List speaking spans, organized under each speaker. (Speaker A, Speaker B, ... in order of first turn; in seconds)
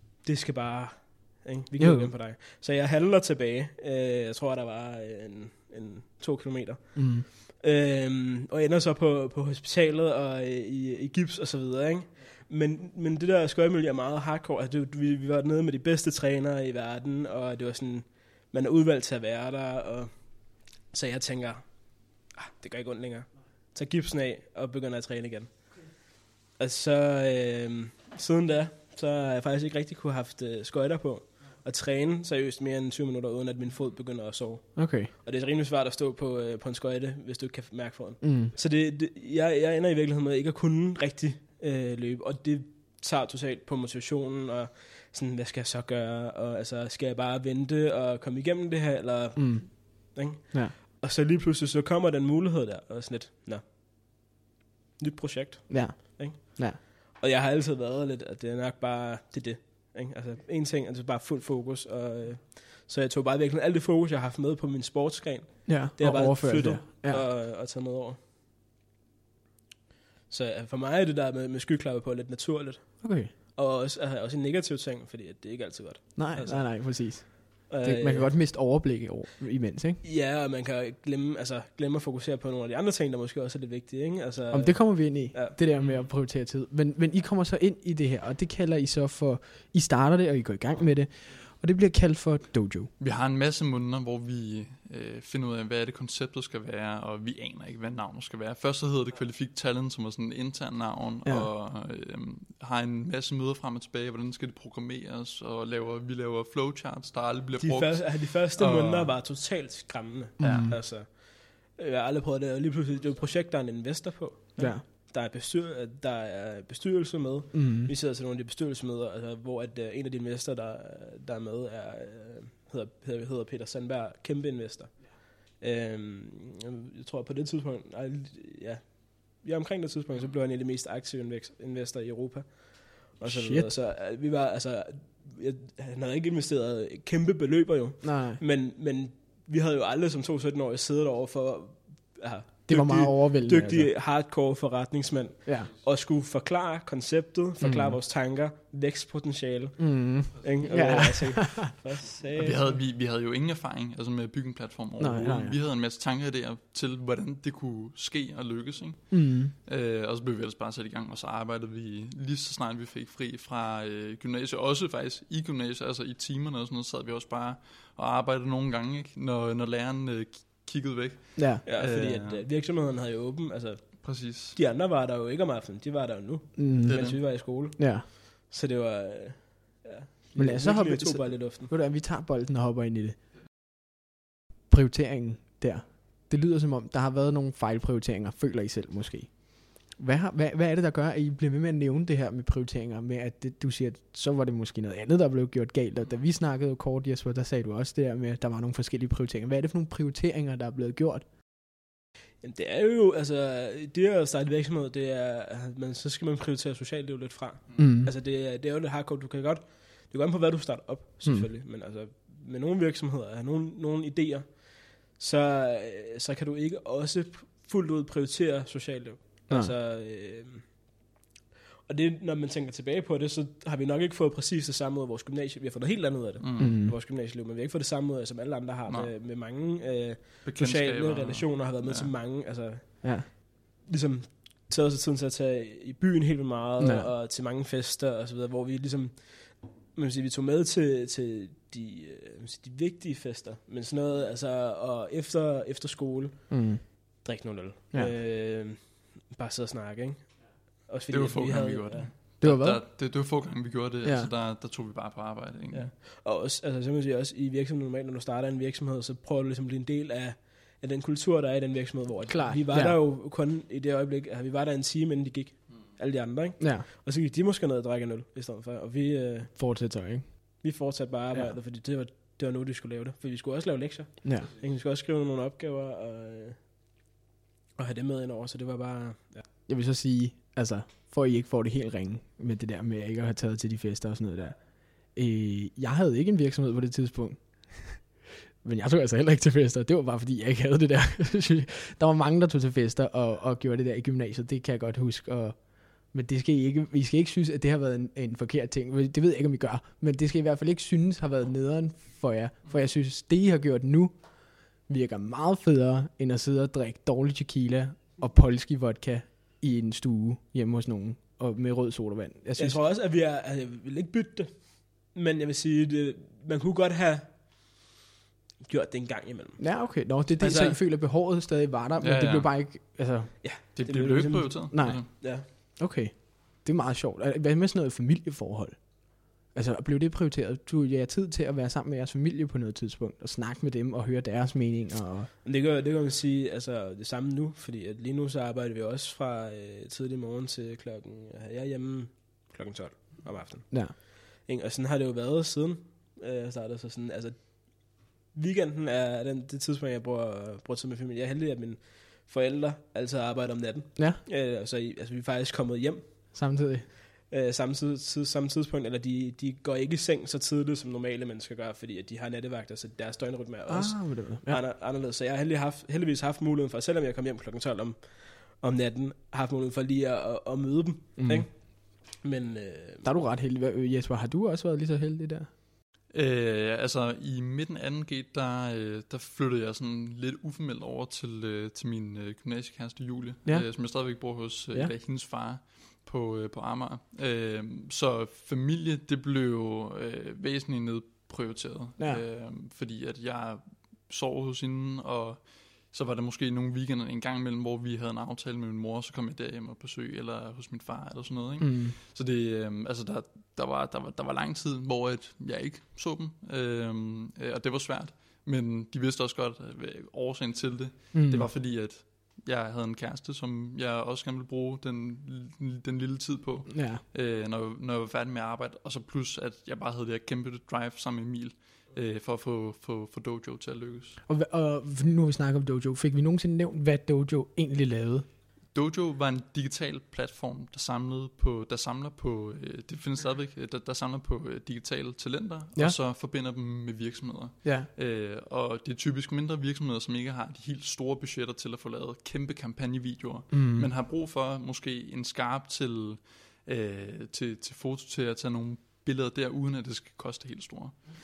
Speaker A: 0.2-53.7, 55.0-68.2, 70.3-78.4, 80.0-85.6, 107.6-152.8, 171.7-181.7, 202.4-220.8, 221.9-252.1, 255.7-269.6, 270.6-276.7, 277.8-279.4, 312.6-317.8, 318.6-320.8, 323.4-325.5, 335.4-356.5, 357.3-373.1
Speaker B: 1.8-2.1, 7.0-7.2, 34.8-35.1, 38.2-38.5, 49.4-50.7, 55.7-56.8, 65.7-67.3, 73.0-73.3, 76.2-80.0, 84.5-92.9, 101.2-101.5, 110.4-110.8, 114.6-114.8, 117.5-117.9, 133.2-133.7, 138.0-138.4, 142.7-143.9, 147.6-148.0, 149.8-151.6, 155.0-155.6, 159.1-159.5, 171.4-171.6, 176.6-178.1, 180.4-183.2, 184.7-201.2, 207.8-208.1, 219.5-219.7, 226.6-227.0, 233.0-233.3, 236.8-237.1, 246.5-247.2, 252.4-252.9, 254.0-254.3, 262.3-263.0, 266.6-266.9, 269.6-270.7, 279.7-312.8, 319.6-323.4, 324.7-335.3, 356.3-356.9, 363.7-364.6, 371.2-371.5, 373.0-375.5, 383.4-384.2, 392.0-392.2, 401.6-402.0, 411.1-411.5, 416.7-417.0, 424.3-428.3, 437.6-437.9, 443.5-443.9
Speaker C: 85.8-86.1, 93.0-109.2, 110.4-110.8, 150.7-151.1, 152.4-172.4, 174.0-174.6, 176.9-177.2, 226.4-226.8, 228.9-229.1, 230.4-232.1, 251.1-255.9, 322.0-322.5, 323.8-325.1, 376.1-424.2, 428.7-451.1